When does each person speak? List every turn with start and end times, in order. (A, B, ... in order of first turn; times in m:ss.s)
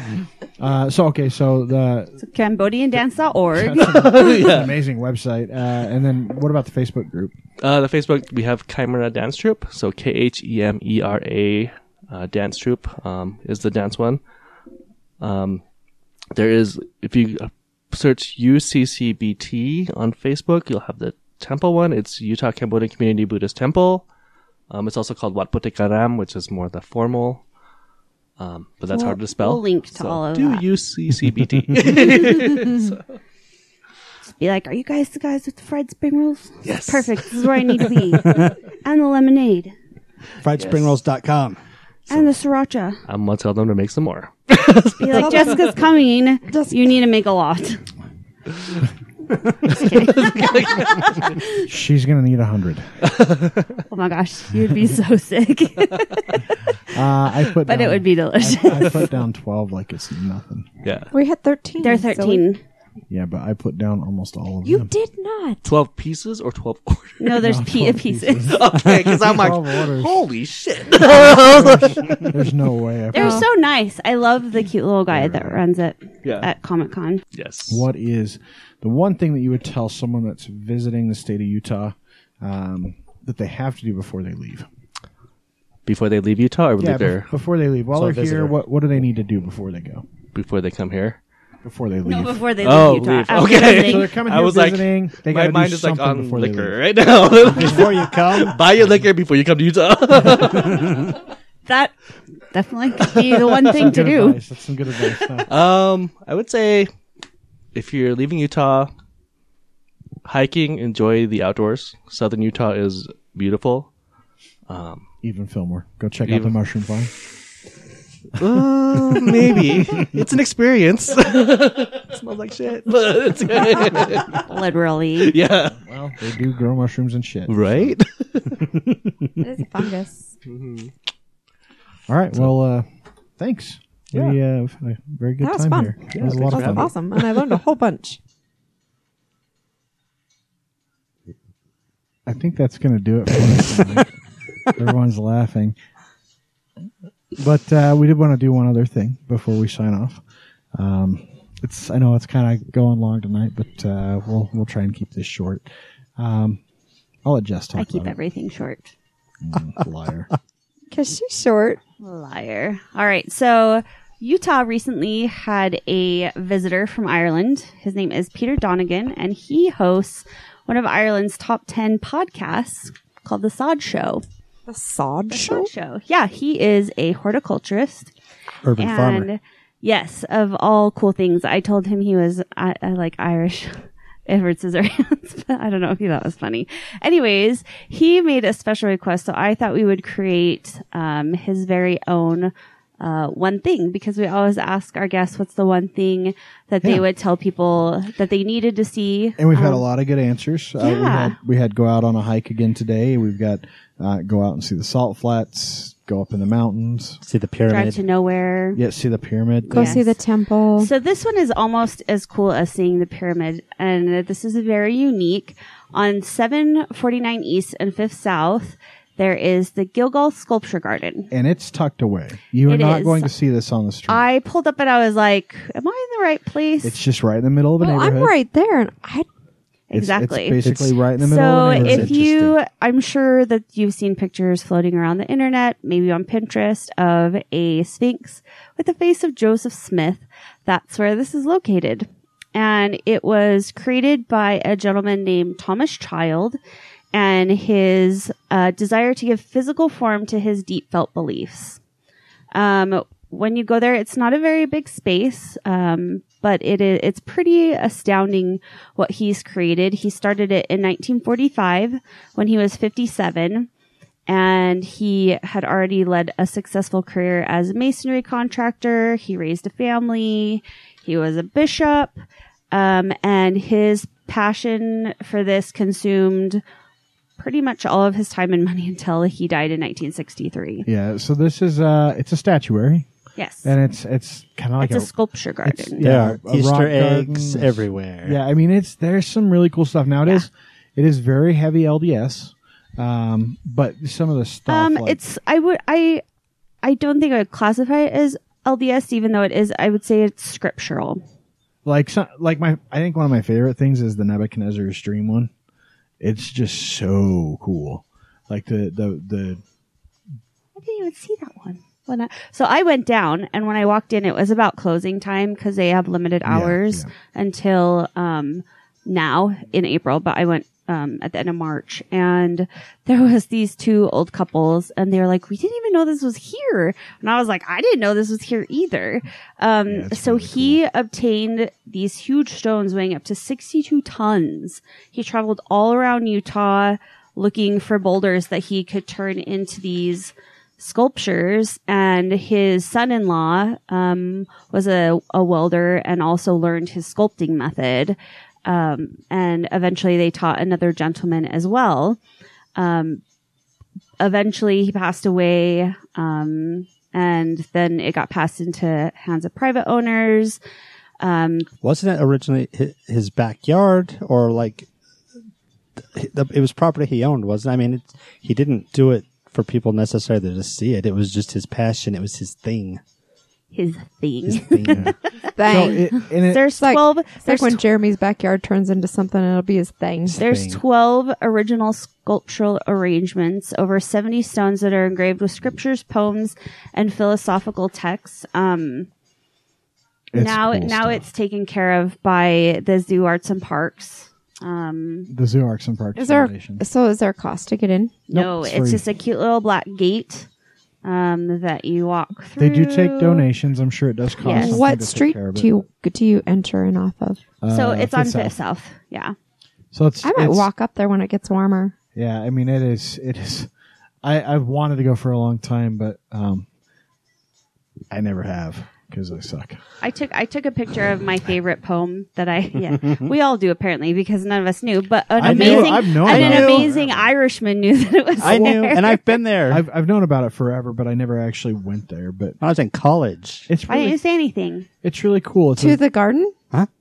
0:00.6-0:02.2 A
0:02.2-0:04.0 B
0:03.5-0:07.3 A
0:03.7-0:04.7 C
0:07.6-0:14.2 C
0:15.2-0:15.6 C
0:16.3-0:24.0 C
0:24.7-0:27.4 C
0:28.4-0:33.2 C
0:28.9-0:30.6 B
0:34.2-0:39.7 B
0:36.6-0:38.5 C
0:40.4-0:41.6 D
0:40.6-0:40.9 C
0:42.1-0:43.0 B
0:43.1-0:45.6 C
0:45.0-0:47.8 B
0:46.5-0:46.8 E
0:48.5-0:48.8 C
0:49.6-0:51.5 B
0:49.7-0:51.4 C
0:51.6-0:53.0 A
0:53.0-0:53.8 C
0:53.9-0:56.7 B
0:56.9-1:00.7 A
0:57.6-0:59.1 B
1:00.8-1:01.1 C
1:01.1-1:02.4 E
1:01.8-1:02.6 B
1:03.1-1:04.9 A
1:04.6-1:05.7 E
1:05.6-1:07.4 C
1:07.2-1:08.6 B
1:07.4-1:10.2 A
1:08.4-1:12.3 C
1:11.0-1:13.5 A
1:13.1-1:17.2 B
1:13.1-1:13.4 E
1:15.1-1:15.6 A
1:16.2-1:16.5 C
1:17.3-1:17.8 C
1:17.7-1:24.7 A
1:25.8-1:27.3 C
1:26.8-1:30.0 A
1:27.9-1:28.6 D
1:30.3-1:31.2 C
1:31.6-1:32.5 A
1:32.0-1:34.1 B
1:32.6-1:41.1 C
1:33.6-1:36.8 A
1:37.4-1:38.6 D
1:41.6-1:41.9 B
1:42.5-1:44.4 B
1:43.7-1:45.5 A
1:45.4-1:46.9 C
1:47.7-1:48.9 C
1:50.2-1:53.9 C
1:54.7-1:55.0 C
1:55.2-1:57.1 A
1:56.3-1:56.5 C
1:58.4-2:04.5 C
2:04.4-2:05.4 B
2:05.2-2:05.8 C
2:05.8-2:07.9 A
2:07.5-2:08.8 C
2:09.4-2:10.3 E
2:10.4-2:10.9 C
2:12.1-2:12.8 A
2:13.4-2:16.9 A
2:15.4-2:18.2 E
2:16.1-2:17.5 C
2:22.2-2:24.1 A
2:24.7-2:25.7 A
2:27.4-2:30.2 A
2:30.7-2:35.6 A
2:36.2-2:36.6 A
2:37.2-2:38.2 A
2:37.8-2:38.9 B
2:39.4-2:40.3 A
2:40.9-2:41.8 E
2:42.0-2:54.2 B
2:54.7-2:55.7 E
2:55.3-2:58.1 B
2:58.6-2:59.3 D
2:58.8-3:19.8 B
3:19.4-3:27.2 A
3:20.8-3:21.4 B
3:27.2-3:28.0 D
3:27.7-3:28.8 B
3:28.7-3:30.0 A
3:29.7-3:30.1 B
3:29.7-3:30.9 E
3:30.8-3:41.3 B
3:41.3-3:44.3 A
3:42.6-3:43.3 B
3:44.1-3:47.0 B
3:46.8-3:48.3 A
3:47.8-3:49.2 E
3:49.9-3:50.6 B
3:49.9-3:52.2 A
3:51.1-4:06.6 B
3:51.7-3:52.6 D
4:07.1-4:11.8 B
4:12.5-4:23.7 B
4:24.3-4:32.2 B
4:32.7-4:36.6 B
4:37.4-4:40.9 B
4:40.8-4:43.1 A
4:43.4-4:43.7 B
4:43.6-4:45.1 A
4:44.8-4:46.0 B
4:45.6-4:55.2 A
4:46.0-4:48.4 D
4:54.7-4:56.2 B
4:56.8-5:01.2 B
5:01.8-5:05.5 A
5:06.2-5:09.6 A
5:10.8-5:52.2 B
5:16.4-5:17.1 A
5:29.9-5:30.8 A
5:52.8-5:53.2 B
5:54.2-6:00.6 B
6:01.2-6:01.7 B
6:01.8-6:04.9 D
6:06.0-6:13.0 D
6:13.7-6:17.8 B
6:14.5-6:15.1 D
6:14.8-6:16.7 A
6:15.6-6:16.2 E
6:16.7-6:20.4 E
6:20.2-6:20.8 A
6:20.4-6:29.1 B
6:30.3-6:31.2 A
6:30.3-6:35.3 B
6:35.3-6:36.8 A
6:36.2-6:38.1 E
6:38.3-6:40.5 B
6:38.3-6:39.0 A
6:41.0-6:43.5 B
6:42.6-6:45.7 A
6:44.4-6:44.8 B
6:44.5-6:47.4 E
6:47.6-6:48.6 A
6:47.7-6:49.3 B
6:49.9-6:50.7 A
6:50.2-6:51.9 E
6:52.1-6:53.7 A
6:54.2-6:56.6 A
6:58.1-6:59.8 A
7:00.0-7:09.4 B
7:05.4-7:07.3 A
7:05.4-7:06.9 D
7:08.4-7:09.1 A
7:08.4-7:09.8 D
7:09.7-7:12.6 A
7:12.6-7:13.7 D
7:13.7-7:14.2 A
7:13.9-7:14.9 B
7:15.0-7:16.0 A
7:15.8-7:16.5 E